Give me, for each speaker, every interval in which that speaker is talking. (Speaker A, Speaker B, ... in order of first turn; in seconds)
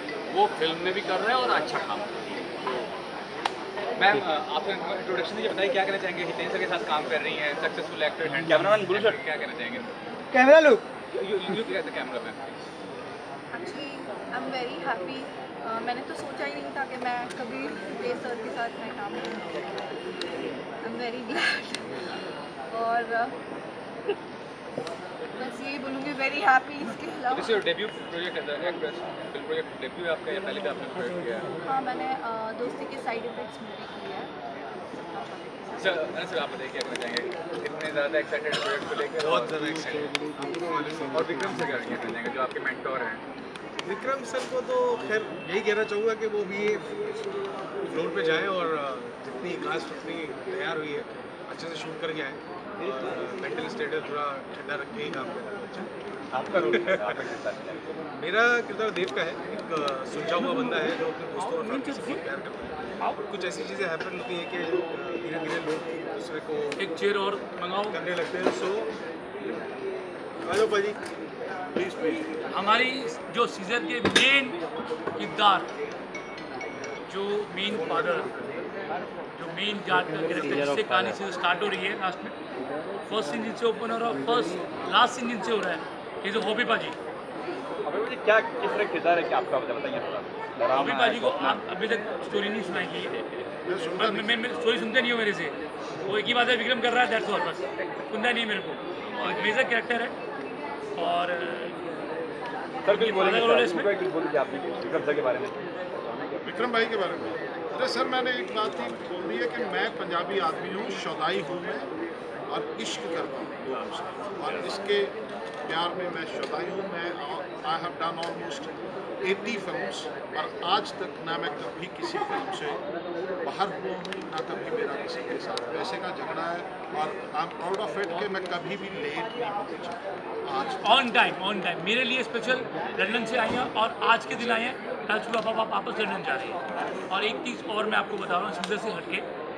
Speaker A: 0.3-2.9, 99.0-99.6, 113.6-114.8
Speaker B: 4.0-9.9, 11.1-12.6, 27.3-31.4, 35.7-40.1, 41.1-43.2
Speaker C: 8.4-9.2, 10.3-10.8, 56.3-57.8, 87.8-91.6, 102.8-105.5
Speaker D: 13.5-19.8, 20.8-22.1, 22.7-23.3, 25.4-27.6, 31.6-34.3, 35.1-36.3
Speaker E: 39.3-39.7, 40.4-41.0, 43.8-47.3, 47.9-55.9, 58.2-62.6, 63.3-66.7, 67.9-68.9
Speaker F: 60.2-62.2, 66.8-68.0, 72.5-74.6, 75.2-75.7, 77.1-78.3, 79.3-82.3, 83.1-87.0, 90.7-93.2, 93.9-100.2, 101.0-101.7, 102.8-103.9, 130.6-139.3
Speaker G: 70.4-70.9, 71.7-72.4, 93.7-94.6, 106.4-111.9, 112.5-122.8, 123.4-131.0